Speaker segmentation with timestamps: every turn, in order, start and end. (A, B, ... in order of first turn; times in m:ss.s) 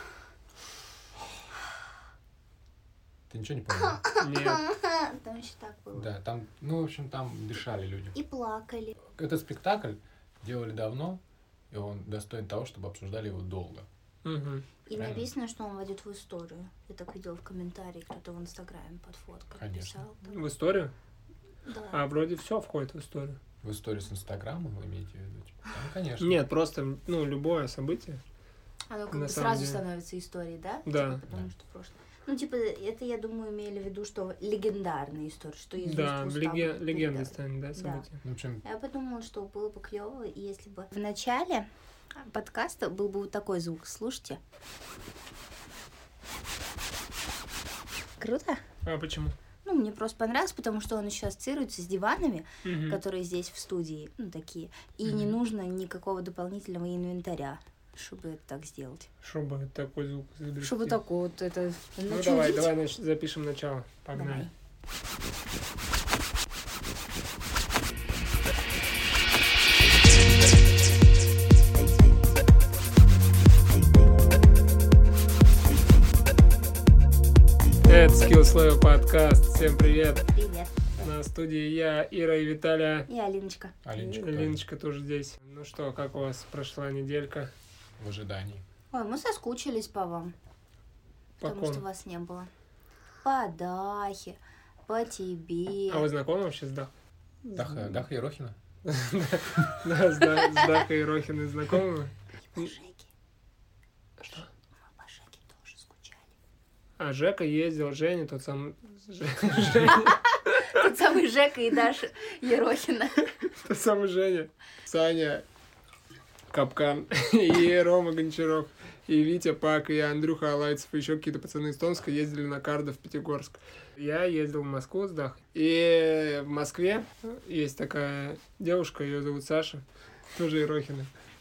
0:03.3-0:04.0 A
0:03.8-0:06.1 B
0:04.2-0:04.6 C
0:06.0-0:08.2 A
0:08.2-0:09.0 B
0:09.1-0:11.2 A
0:11.7-0:13.9 A
0:14.2-0:14.7 C
0:14.9-0:20.4 B
0:14.9-0:15.3 A
0:19.6-0:20.0 A
0:20.3-0:20.9 C
0:21.7-0:22.0 B
0:21.9-0:23.4 C
0:23.6-0:26.4 A
0:26.2-0:28.2 C
0:28.9-0:38.0 B
0:29.1-0:29.8 C
0:30.9-0:31.2 C
0:35.8-0:38.2 C
0:38.2-0:38.6 A
0:38.6-0:41.7 B
0:42.2-0:44.4 B
0:48.2-0:48.6 B
0:48.8-0:49.4 C
0:49.6-0:59.1 B
0:52.6-0:53.0 C
0:55.0-0:55.4 C
0:59.2-1:01.0 C
1:00.6-1:02.7 B
1:02.1-1:04.5 C
1:04.1-1:04.5 B
1:17.9-1:20.2 C
1:20.3-1:20.8 B
1:21.0-1:23.1 C
1:23.1-1:23.8 B
1:23.8-1:24.6 A
1:23.9-1:27.5 C
1:28.0-1:28.6 A
1:28.9-1:30.3 B
1:31.4-1:31.8 C
1:31.4-1:32.5 B
1:33.2-1:36.1 B
1:35.9-1:36.9 C
1:37.4-1:38.0 C
1:37.5-1:38.6 A
1:38.8-1:42.2 C
1:42.4-1:43.1 B
1:44.3-1:46.3 B
1:47.0-1:50.9 C
1:49.9-1:53.2 B
1:53.4-1:55.4 C
1:56.5-2:11.1 C